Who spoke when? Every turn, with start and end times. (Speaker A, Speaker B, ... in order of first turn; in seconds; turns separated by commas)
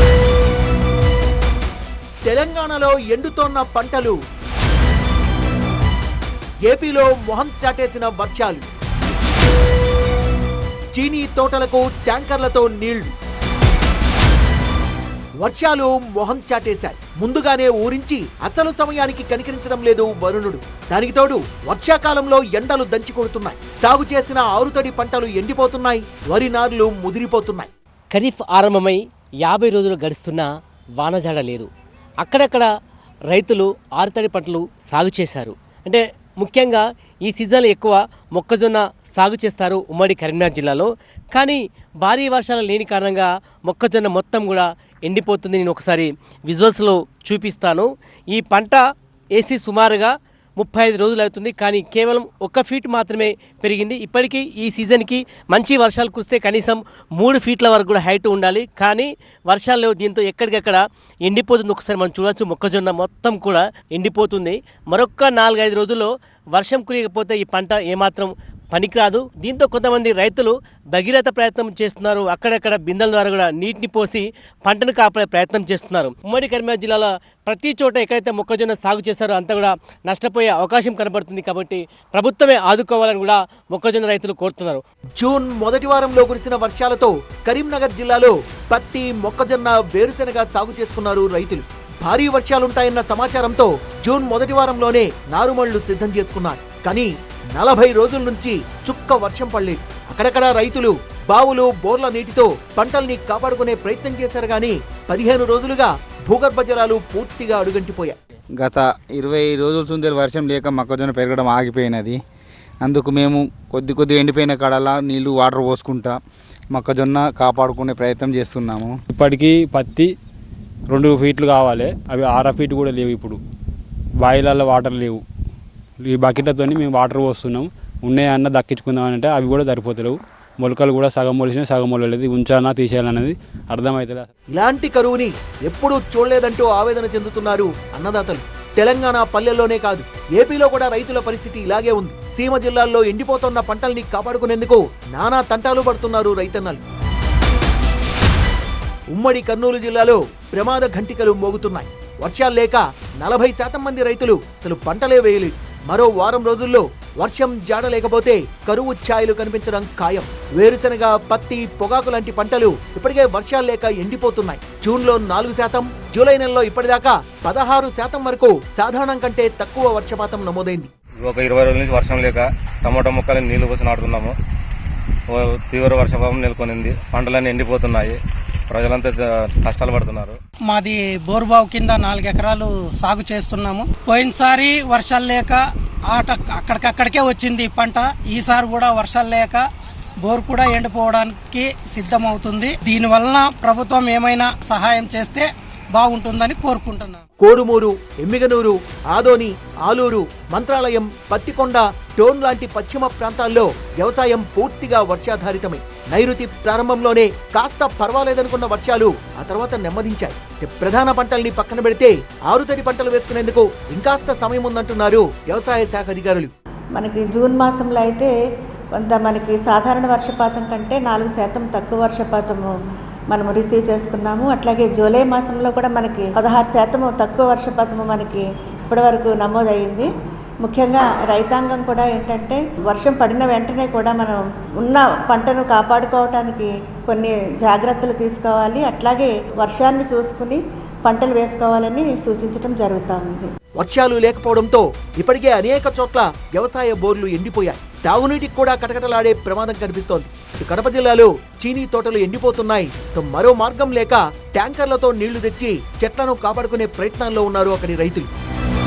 Speaker A: 2.2-4.2, Speaker A: 6.6-8.7, Speaker A: 10.9-13.1, Speaker A: 15.4-27.7, Speaker B: 28.1-30.5, Speaker B: 31.0-31.7, Speaker B: 32.2-32.6, Speaker B: 33.3-48.8, Speaker B: 49.3-84.8, Speaker A: 85.2-108.2, Speaker C: 108.6-112.2, Speaker C: 112.8-116.2, Speaker C: 116.7-119.0, Speaker D: 119.1-120.1, Speaker D: 120.9-123.4, Speaker D: 124.2-125.2, Speaker D: 126.0-134.3, Speaker A: 134.5-146.8, Speaker A: 149.1-170.9, Speaker E: 171.2-174.3, Speaker E: 175.4-178.2, Speaker E: 178.7-180.3, Speaker F: 180.7-189.6, Speaker F: 190.2-197.2, Speaker A: 197.4-216.5, Speaker G: 217.0-218.3, Speaker G: 219.0-222.7, Speaker G: 223.3-230.1, Speaker G: 230.6-243.5, Speaker A: 243.8-258.3